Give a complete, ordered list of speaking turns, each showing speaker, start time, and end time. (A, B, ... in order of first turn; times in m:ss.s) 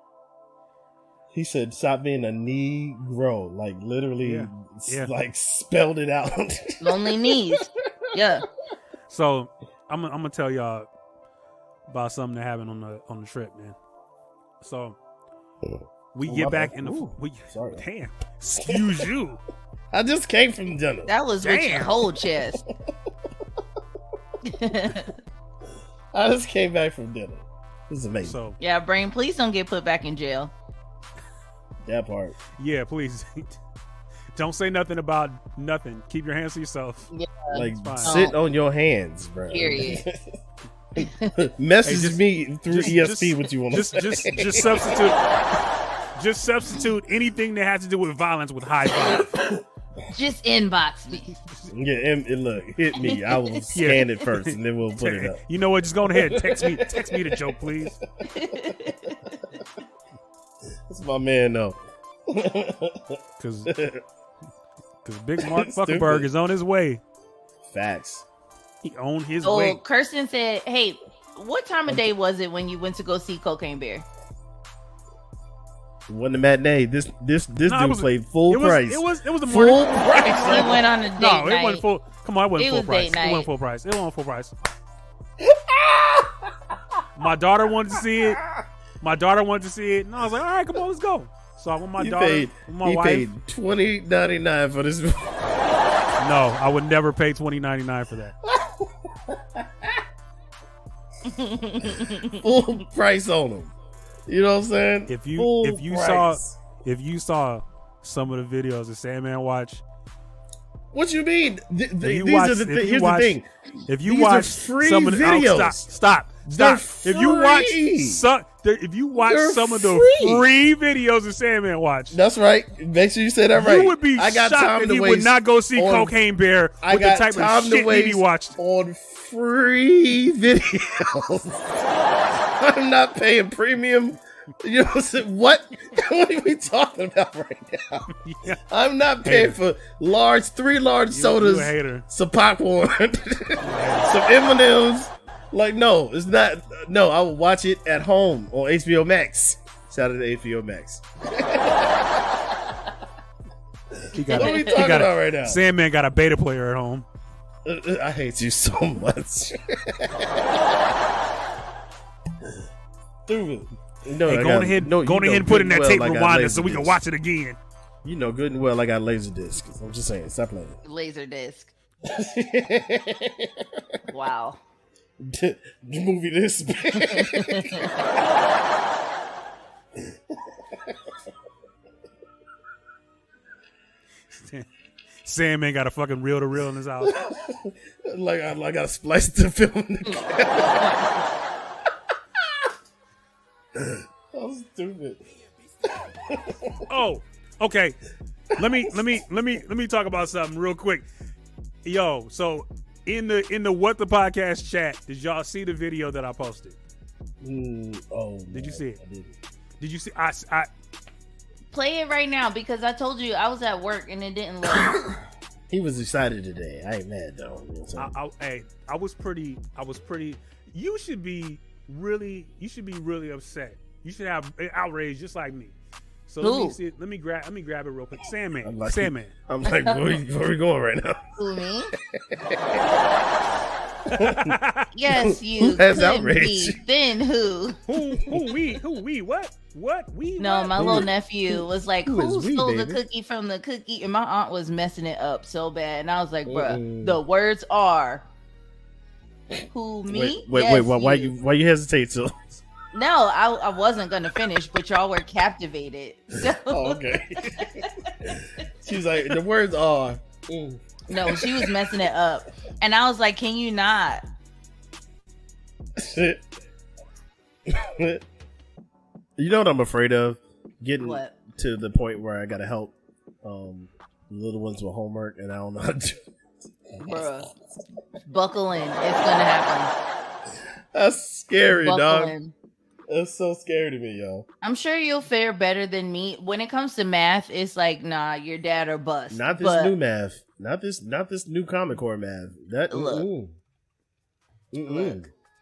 0:01.3-0:08.3 A
0:04.2-0:05.1 B
0:06.8-0:08.4 C
0:09.1-0:10.9 B
0:11.9-0:13.8 B
0:14.6-0:14.9 B
0:16.1-0:19.4 B
0:16.2-0:17.8 A
0:18.6-0:19.0 A
0:19.9-0:21.1 A
0:21.1-0:22.6 C
0:21.4-0:22.0 B
0:24.4-0:25.1 C
0:26.1-0:28.4 A
0:28.2-0:28.6 B
0:28.6-0:30.5 C
0:31.8-0:32.4 A
0:32.6-0:33.6 B
0:34.4-0:38.2 B
0:37.1-0:38.3 C
0:37.5-0:40.4 A
0:39.5-0:40.0 C
0:41.0-0:45.1 A
0:41.0-0:41.3 C
0:41.8-0:45.6 B
0:46.2-0:49.6 B
0:49.1-0:49.6 A
0:50.1-0:51.3 C
0:51.2-0:51.7 B
0:51.7-0:55.4 A
0:53.7-0:58.0 B
0:56.0-0:58.9 A
0:58.2-0:59.4 C
1:00.9-1:04.0 A
1:03.4-1:03.7 B
1:05.0-1:07.0 B
1:05.4-1:06.3 A
1:07.6-1:08.2 A
1:08.8-1:09.8 B
1:09.4-1:14.0 C
1:16.1-1:20.8 A
1:17.6-1:24.5 B
1:20.3-1:21.8 C
1:22.6-1:23.5 C
1:25.4-1:27.0 A
1:27.2-1:28.4 B
1:29.0-1:33.3 B
1:32.0-1:36.1 A
1:36.2-1:38.4 B
1:38.4-1:40.0 A
1:41.2-1:42.4 C
1:41.8-1:43.7 A
1:44.3-1:46.6 A
1:45.1-1:49.8 B
1:50.9-1:55.8 A
1:52.0-1:53.3 B
1:53.9-2:02.2 B
1:56.5-1:58.3 A
1:59.1-2:00.5 A
2:02.1-2:06.1 A
2:03.5-2:08.6 B
2:06.8-2:18.1 A
2:18.2-2:18.6 B
2:18.7-2:32.6 A
2:19.2-2:19.6 B
2:21.1-2:22.0 B
2:23.6-2:24.1 B
2:33.9-2:35.6 A
2:34.1-2:37.0 B
2:34.2-2:34.8 C
2:37.6-2:41.0 A
2:43.3-2:47.0 A
2:44.3-2:47.6 B
2:48.0-2:50.8 A
2:50.8-2:51.7 C
2:52.0-2:53.9 A
2:54.1-2:54.6 C
2:55.2-2:58.4 A
2:57.1-2:58.0 C
3:00.0-3:01.1 A
3:04.4-3:04.7 B
3:05.2-3:07.2 B
3:07.0-3:11.3 A
3:12.4-3:12.7 A
3:13.7-3:15.2 A
3:15.8-3:16.9 A
3:16.9-3:18.0 B
3:18.5-3:19.2 A
3:18.5-3:21.0 B
3:21.8-3:26.8 B
3:27.4-3:29.4 A
3:28.5-3:29.0 B
3:29.8-3:30.7 B
3:31.7-3:34.9 C
3:34.7-3:38.1 A
3:38.0-3:45.7 B
3:46.3-3:49.3 B
3:46.4-3:46.8 C
3:48.6-3:51.3 A
3:49.6-3:50.1 C
3:51.4-3:51.9 C
3:52.0-3:53.1 A
3:54.1-3:56.8 A
3:54.1-3:54.9 B
3:54.9-3:57.8 C
3:57.9-4:01.1 B
3:58.2-3:58.7 A
4:00.4-4:08.2 C
4:00.7-4:03.0 A
4:06.4-4:07.2 A
4:09.7-4:11.3 C
4:10.1-4:12.6 A
4:12.9-4:18.2 C
4:16.4-4:21.9 A
4:21.1-4:24.2 C
4:26.0-4:26.4 A
4:27.7-4:28.2 A
4:29.4-4:36.2 A
4:31.0-4:31.3 C
4:36.8-4:37.4 A
4:37.0-4:37.5 C
4:38.3-4:39.9 C
4:40.9-4:42.3 A
4:41.8-4:42.5 C
4:43.1-4:44.4 A
4:44.6-4:49.9 C
4:49.3-4:53.6 A
4:52.9-4:53.3 C
4:54.7-4:55.3 A
4:54.8-4:55.2 C